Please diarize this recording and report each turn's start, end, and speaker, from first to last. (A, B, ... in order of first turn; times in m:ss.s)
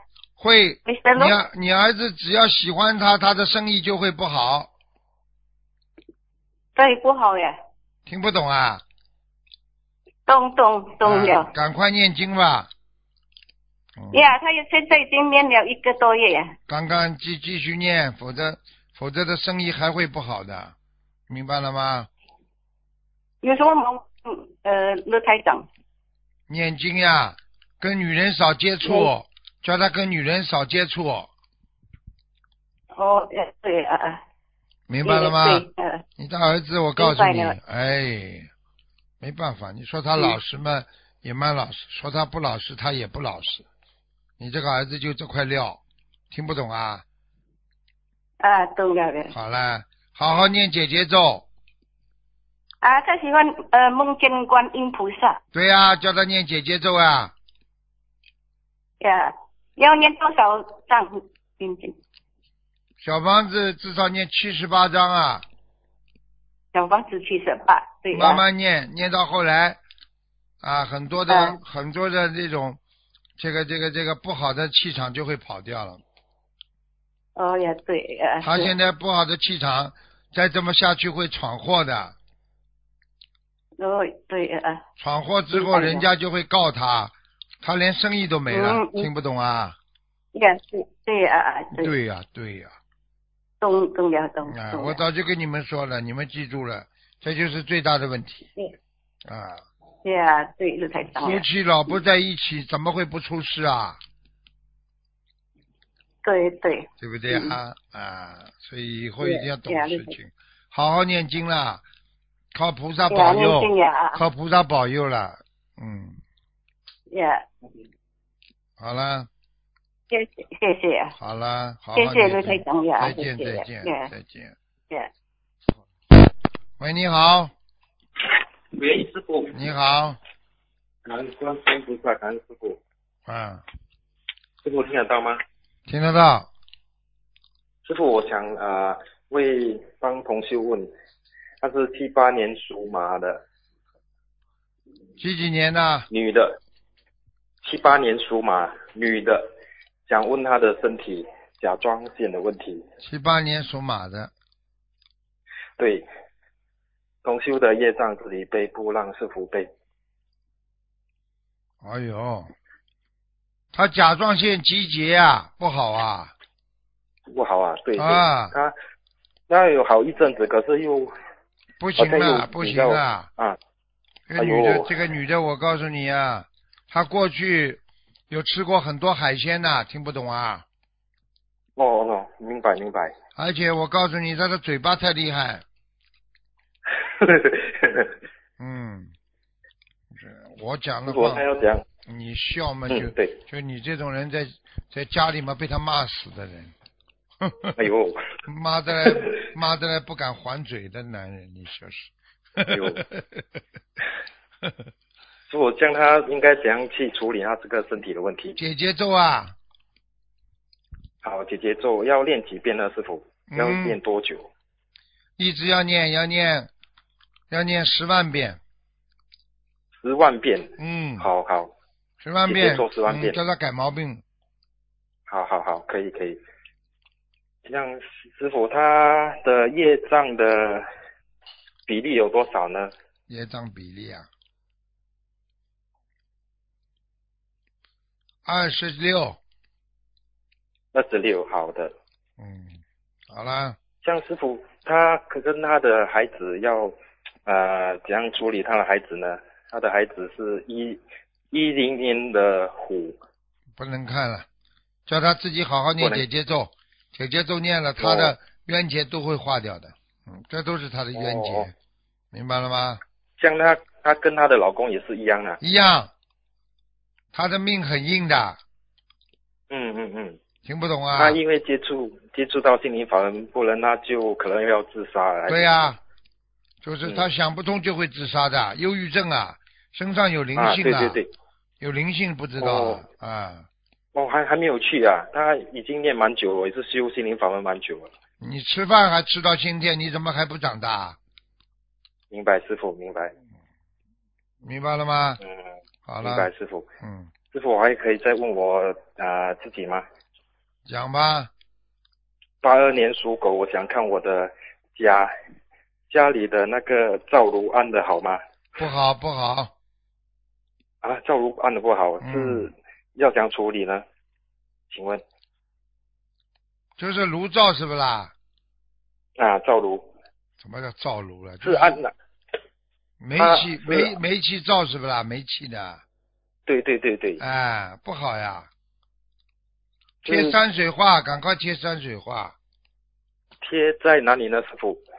0:00.4-0:04.7 A
0:00.9-0:01.4 B
0:06.8-0:07.6 B
0:08.1-0:08.8 A
0:10.3-0:11.5 B
0:11.0-0:12.7 A
0:14.0-0:14.4 A
0:14.1-0:16.6 B
0:16.7-0:20.7 A
0:21.3-0:22.1 A
0:23.4-0:25.7 B
0:26.5-0:31.3 A
0:28.8-0:29.1 B
0:33.0-0:34.2 B
0:34.9-0:38.5 A
0:35.0-0:36.0 B
0:37.0-0:37.6 B
0:39.2-0:43.7 A
0:44.4-0:45.8 A
0:46.3-0:47.0 A
0:48.4-0:49.3 B
0:49.3-0:51.5 A
0:52.8-0:55.4 B
0:55.5-0:57.3 A
0:59.0-1:02.0 B
1:03.0-1:05.4 A
1:06.7-1:08.4 B
1:08.1-1:09.8 A
1:10.6-1:12.8 A
1:11.3-1:11.6 B
1:13.4-1:16.0 A
1:17.4-1:18.7 B
1:18.4-1:22.2 A
1:23.8-1:24.8 B
1:25.0-1:29.8 A
1:25.5-1:26.0 B
1:28.5-1:29.1 B
1:30.3-1:31.9 B
1:31.7-1:32.7 A
1:33.6-1:35.0 B
1:34.5-1:38.5 A
1:39.3-1:39.6 A
1:40.0-1:41.4 B
1:41.2-1:44.0 A
1:46.2-1:47.6 B
1:47.0-1:51.8 A
1:49.2-1:50.2 B
1:52.5-1:56.2 A
1:53.1-1:54.2 B
1:57.1-1:57.4 B
1:58.8-1:59.3 A
2:00.1-2:01.2 B
2:01.2-2:04.6 A
2:02.0-2:04.1 B
2:06.8-2:07.5 A
2:08.7-2:09.6 C
2:09.5-2:10.2 A
2:11.0-2:12.8 C
2:13.3-2:13.6 A
2:14.6-2:15.4 C
2:15.9-2:16.5 A
2:17.8-2:20.9 C
2:21.6-2:23.4 C
2:25.2-2:26.1 A
2:26.1-2:26.6 C
2:27.6-2:29.5 C
2:30.1-2:32.8 C
2:33.0-2:34.3 A
2:35.8-2:36.1 C
2:37.2-2:39.7 C
2:41.8-2:42.5 A
2:43.7-2:46.3 A
2:47.3-2:48.8 C
2:48.0-2:48.6 A
2:49.5-2:51.1 C
2:51.8-2:53.3 A
2:52.0-2:53.6 C
2:54.3-3:00.6 A
2:54.4-2:54.9 C
3:01.8-3:03.2 C
3:03.4-3:05.6 A
3:07.1-3:08.1 C
3:08.6-3:09.1 A
3:10.1-3:11.4 A
3:11.1-3:11.8 C
3:12.1-3:16.7 A
3:12.9-3:13.4 C
3:17.4-3:17.8 A
3:17.8-3:18.2 C
3:18.5-3:23.4 A
3:22.7-3:23.0 C
3:25.5-3:28.6 C
3:28.6-3:29.6 A
3:31.2-3:34.5 C
3:33.5-3:34.0 A
3:35.4-3:36.7 A
3:37.5-3:38.6 A
3:40.0-3:41.7 C
3:40.8-3:41.3 A
3:42.2-3:44.2 A
3:42.5-3:43.4 C
3:45.3-3:46.4 C
3:47.6-3:50.9 C
3:51.9-3:52.9 C
3:53.3-3:54.3 A
3:58.4-3:59.4 A
4:00.9-4:01.9 C
4:02.4-4:03.8 A
4:04.0-4:13.2 C
4:13.8-4:14.5 A
4:15.1-4:21.7 A
4:18.0-4:18.4 C
4:21.2-4:21.7 C
4:22.3-4:23.0 A
4:23.4-4:25.6 C
4:25.6-4:26.1 A
4:27.3-4:28.6 A
4:29.7-4:30.4 C
4:30.6-4:31.4 A
4:31.2-4:35.9 C
4:35.5-4:36.0 A
4:36.8-4:41.2 A
4:40.6-4:41.3 C
4:41.8-4:43.7 A
4:42.6-4:43.0 C
4:44.1-4:48.1 C
4:48.4-4:51.2 A
4:52.3-4:53.3 C
4:54.6-4:55.4 A
4:56.1-4:56.5 A
4:56.2-4:56.9 C
4:57.0-4:57.3 A
4:57.5-5:00.0 C
5:00.9-5:01.5 A
5:02.6-5:05.3 C
5:06.1-5:08.4 C
5:08.8-5:09.7 A
5:11.0-5:14.0 C
5:12.2-5:12.7 A
5:14.9-5:15.2 C
5:17.0-5:18.3 A
5:19.4-5:20.1 C
5:20.6-5:22.0 A
5:21.6-5:22.1 C
5:23.2-5:26.0 A
5:23.4-5:24.1 C
5:26.7-5:27.4 C
5:27.4-5:28.7 A
5:30.2-5:30.6 C
5:30.2-5:32.6 A
5:33.6-5:35.0 C